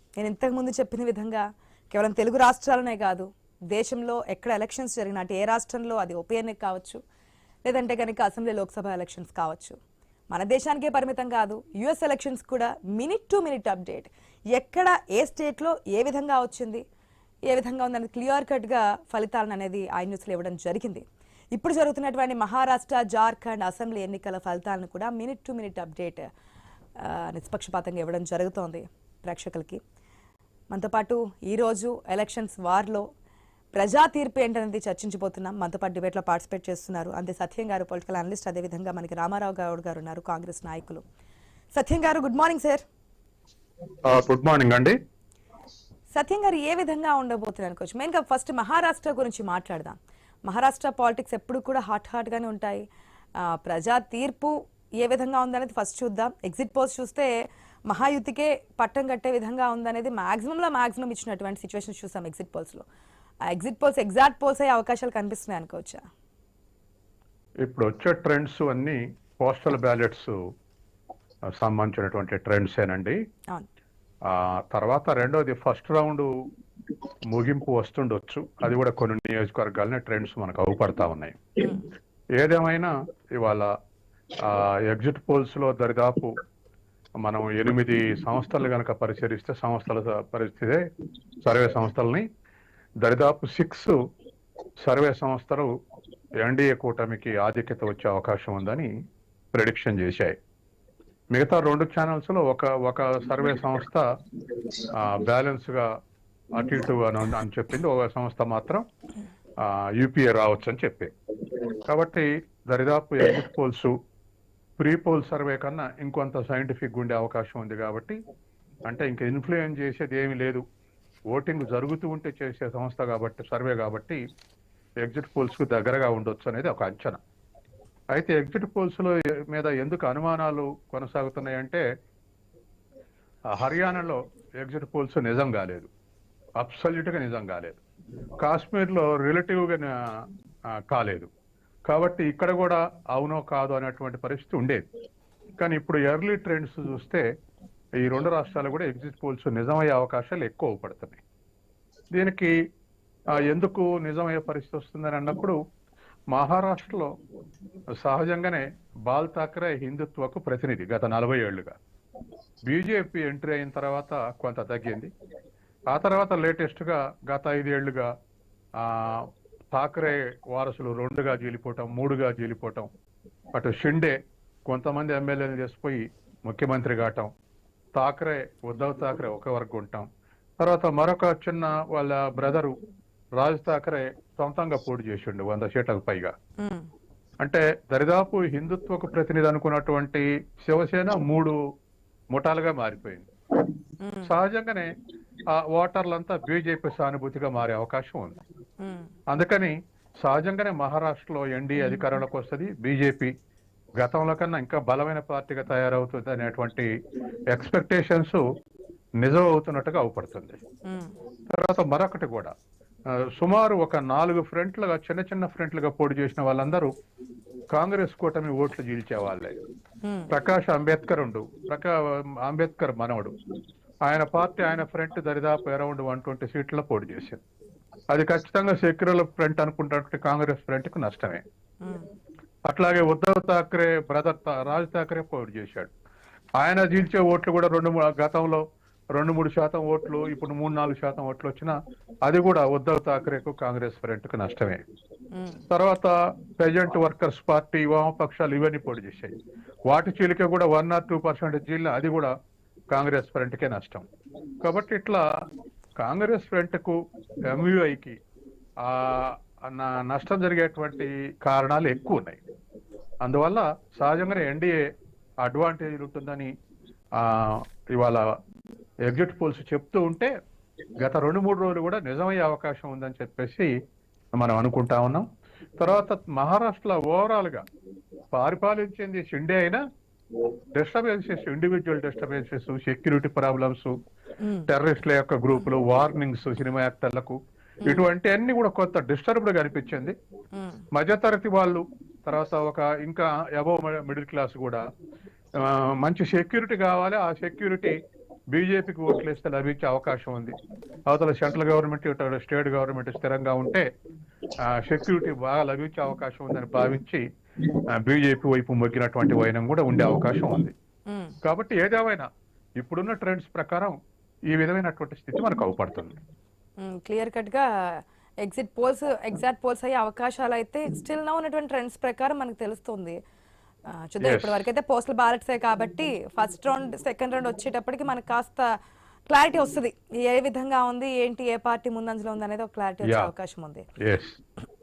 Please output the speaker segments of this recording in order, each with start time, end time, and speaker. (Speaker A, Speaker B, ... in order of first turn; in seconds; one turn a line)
Speaker A: 0.2-7.0
Speaker A: 7.6-9.8
Speaker A: 10.3-16.8
Speaker A: 17.5-26.2
Speaker A: 27.0-29.8
Speaker A: 30.7-33.0
Speaker A: 33.7-41.0
Speaker A: 41.7-42.8
Speaker B: 44.0-45.0
Speaker A: 46.1-52.9
Speaker A: 53.4-57.3
Speaker A: 57.9-62.9
Speaker A: 63.5-66.0
Speaker B: 67.6-70.3
Speaker B: 71.6-73.2
Speaker B: 74.2-76.3
Speaker B: 77.3-81.4
Speaker A: 81.6-81.8
Speaker B: 82.3-83.7
Speaker B: 84.4-86.3
Speaker B: 87.2-90.8
Speaker B: 91.4-92.2
Speaker B: 93.0-93.9
Speaker B: 94.8-95.7
Speaker B: 96.4-98.9
Speaker B: 99.5-100.3
Speaker B: 101.3-104.0
Speaker B: 104.8-105.9
Speaker B: 106.5-108.8
Speaker B: 109.6-111.1
Speaker B: 111.7-113.9
Speaker B: 114.8-118.2
Speaker B: 118.8-120.6
Speaker B: 121.3-124.2
Speaker B: 125.0-127.2
Speaker B: 128.1-131.8
Speaker B: 133.5-135.9
Speaker B: 136.6-137.8
Speaker B: 138.4-139.9
Speaker B: 140.7-141.3
Speaker B: 141.8-144.8
Speaker B: 145.6-147.2
Speaker B: 148.0-151.2
Speaker B: 152.1-152.6
Speaker B: 153.3-155.6
Speaker B: 156.3-157.1
Speaker B: 158.0-161.7
Speaker B: 162.6-165.1
Speaker B: 165.9-168.1
Speaker B: 168.8-172.9
Speaker B: 173.5-174.1
Speaker B: 174.7-177.3
Speaker B: 177.9-180.1
Speaker B: 180.6-182.7
Speaker B: 183.4-186.3
Speaker A: 186.6-186.9
Speaker B: 187.4-191.6
Speaker B: 192.3-193.3
Speaker A: 194.0-194.3
Speaker B: 194.2-194.9
Speaker B: 195.5-198.4
Speaker A: 198.8-199.1
Speaker B: 199.3-203.3
Speaker B: 204.0-206.9
Speaker B: 207.5-208.4
Speaker B: 209.2-210.6
Speaker A: 210.8-211.1
Speaker B: 211.5-212.5
Speaker B: 213.1-216.9
Speaker B: 217.7-219.6
Speaker A: 220.0-220.3
Speaker B: 220.3-223.3
Speaker B: 224.0-227.4
Speaker B: 228.1-231.4
Speaker A: 231.8-232.1
Speaker B: 232.6-235.9
Speaker B: 236.6-244.8
Speaker A: 245.3-245.6
Speaker B: 245.7-252.3
Speaker B: 252.9-254.0
Speaker B: 254.6-255.2
Speaker B: 256.0-258.2
Speaker B: 258.8-262.4
Speaker B: 263.2-264.8
Speaker B: 265.4-266.5
Speaker B: 267.1-268.2
Speaker B: 269.0-270.3
Speaker B: 271.0-273.7
Speaker B: 274.4-275.2
Speaker B: 275.8-277.6
Speaker B: 278.3-279.8
Speaker B: 280.7-283.9
Speaker A: 284.4-284.7
Speaker B: 284.7-290.1
Speaker A: 290.5-290.8
Speaker B: 290.9-294.8
Speaker B: 295.6-298.0
Speaker B: 298.5-303.9
Speaker B: 304.6-310.7
Speaker A: 311.1-311.3
Speaker B: 311.4-312.3
Speaker B: 312.8-314.0
Speaker B: 314.5-316.2
Speaker A: 316.8-323.2
Speaker A: 323.9-328.6
Speaker B: 324.2-324.6
Speaker A: 329.3-333.8
Speaker B: 333.0-333.3
Speaker B: 334.0-334.4